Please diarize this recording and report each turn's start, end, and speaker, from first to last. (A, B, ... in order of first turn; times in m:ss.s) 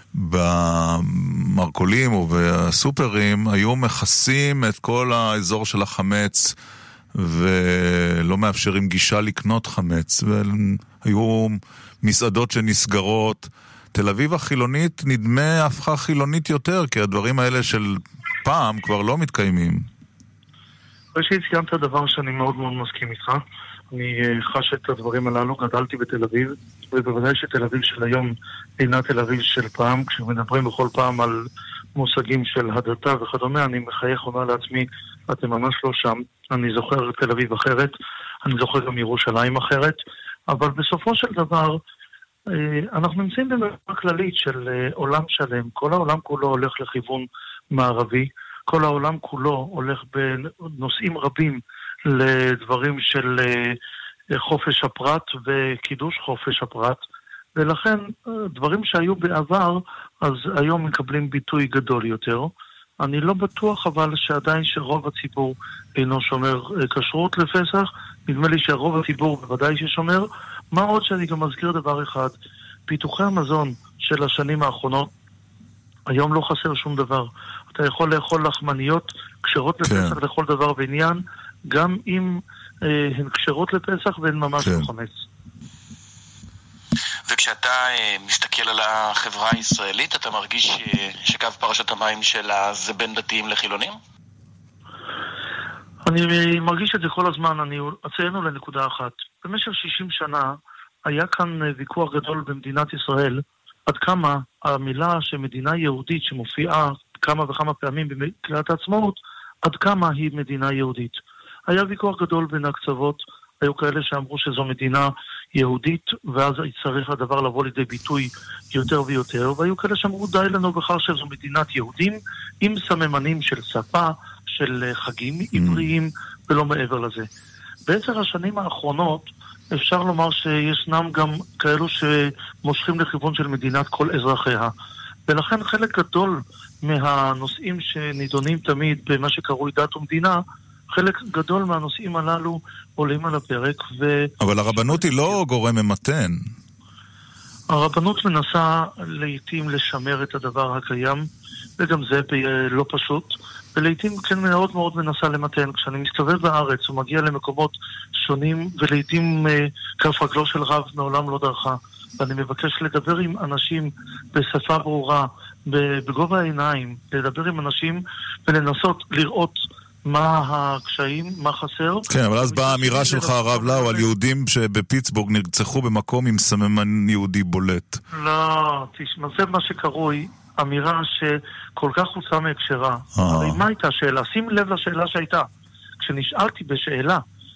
0:00.1-0:06.6 A
0:07.2-0:19.9 A
0:21.2-0:23.4 B
0:23.9-0:31.4 B
0:32.0-0:37.9 B
0:38.4-0:40.0 B
0:40.5-0:41.8 B
0:42.6-0:53.8 B
0:54.4-0:57.0 B
0:57.6-1:12.3 B
1:12.9-1:15.1 B
1:16.1-1:25.1 B
1:19.8-1:20.2 A
1:24.6-1:24.9 A
1:27.3-1:34.0 C
1:36.1-1:40.6 B
1:41.1-2:07.3 B
2:05.5-2:05.9 A
2:07.9-2:14.7 B
2:15.3-2:20.4 B
2:20.9-2:25.4 B
2:24.4-2:26.5 A
2:27.7-2:31.3 B
2:31.8-2:54.1 B
2:52.1-2:58.0 A
2:58.2-3:05.5 B
3:03.2-3:03.6 A
3:06.0-3:07.2 B